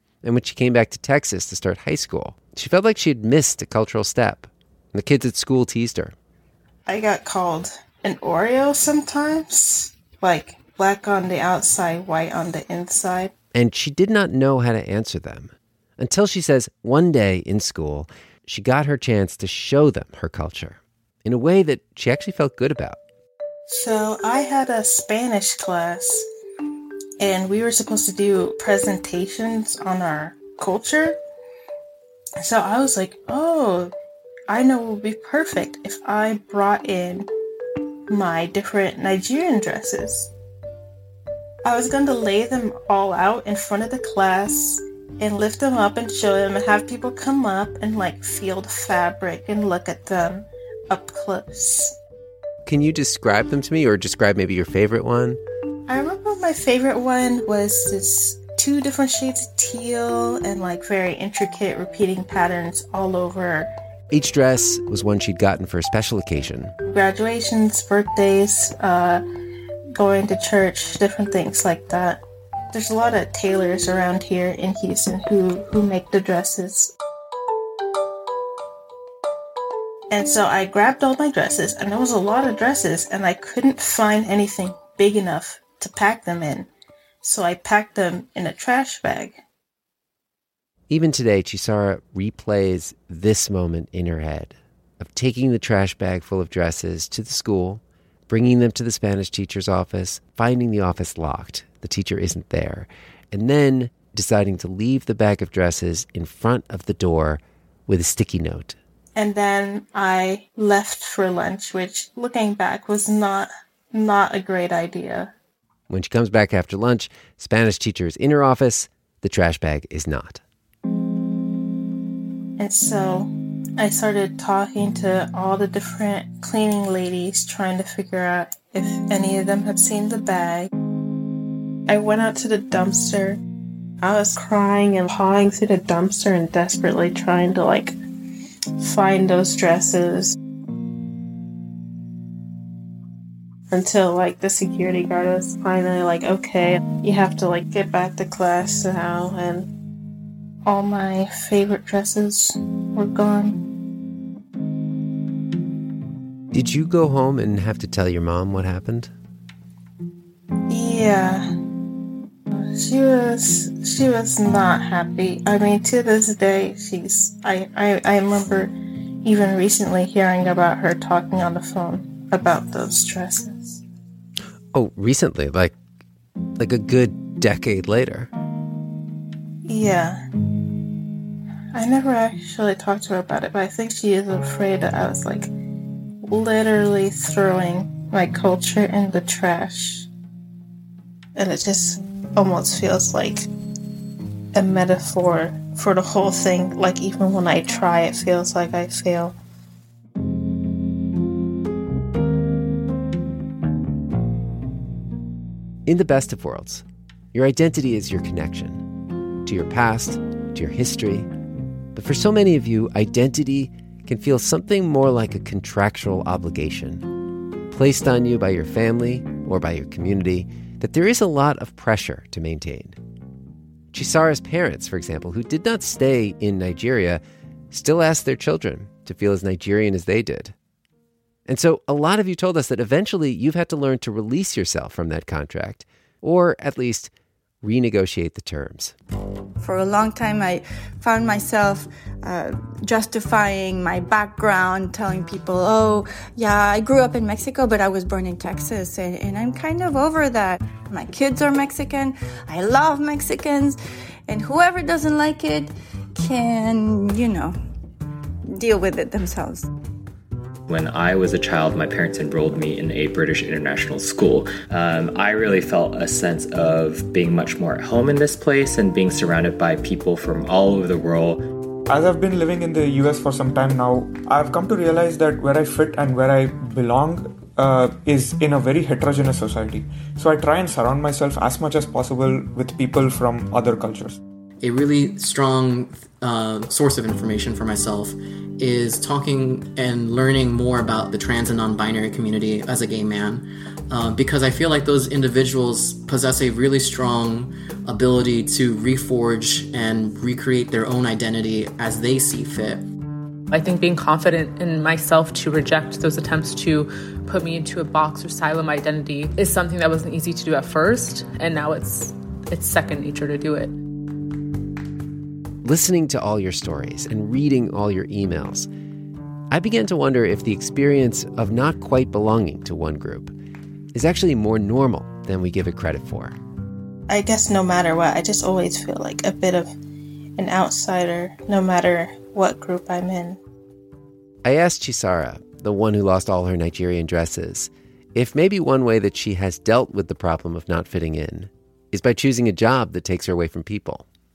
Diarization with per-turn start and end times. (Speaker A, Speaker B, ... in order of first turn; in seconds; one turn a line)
Speaker A: 0.2-6.1
Speaker B: 6.9-13.3
Speaker A: 13.5-23.0
Speaker B: 23.7-26.2
Speaker B: 27.2-31.2
Speaker B: 32.4-33.9
Speaker B: 34.5-37.3
Speaker B: 38.1-40.3
Speaker B: 41.6-51.9
Speaker A: 52.6-55.4
Speaker B: 55.9-63.7
Speaker A: 64.1-66.7
Speaker B: 66.9-69.2
Speaker B: 69.9-76.9
Speaker B: 80.1-86.7
Speaker B: 87.2-89.4
Speaker A: 90.9-108.8
Speaker B: 109.2-115.3
Speaker A: 115.9-120.4
Speaker B: 122.6-130.7
Speaker B: 131.9-133.4
Speaker B: 134.0-137.9
Speaker B: 138.8-140.3
Speaker B: 143.7-149.7
Speaker B: 150.7-153.6
Speaker A: 156.5-159.1
Speaker B: 160.7-161.5
Speaker B: 162.5-168.7
Speaker B: 169.2-173.8
Speaker A: 174.7-175.8
Speaker A: 176.6-178.3
Speaker B: 179.7-180.2
Speaker B: 181.7-185.5
Speaker B: 186.3-190.1
Speaker B: 191.3-193.5
Speaker B: 194.5-199.3
Speaker A: 205.8-208.9
Speaker A: 209.4-211.3
Speaker A: 211.9-217.1
Speaker A: 217.7-223.0
Speaker A: 223.9-230.5
Speaker A: 231.5-238.9
Speaker C: 239.6-253.8
Speaker C: 254.3-257.6
Speaker C: 258.5-259.7
Speaker D: 260.7-271.4
Speaker E: 271.9-284.2
Speaker F: 284.6-302.8
Speaker G: 303.5-313.7
Speaker A: 315.6-318.7
Speaker A: 319.5-323.3
Speaker A: 323.9-326.4
Speaker B: 327.1-329.7
Speaker B: 330.4-333.4
Speaker A: 334.4-344.0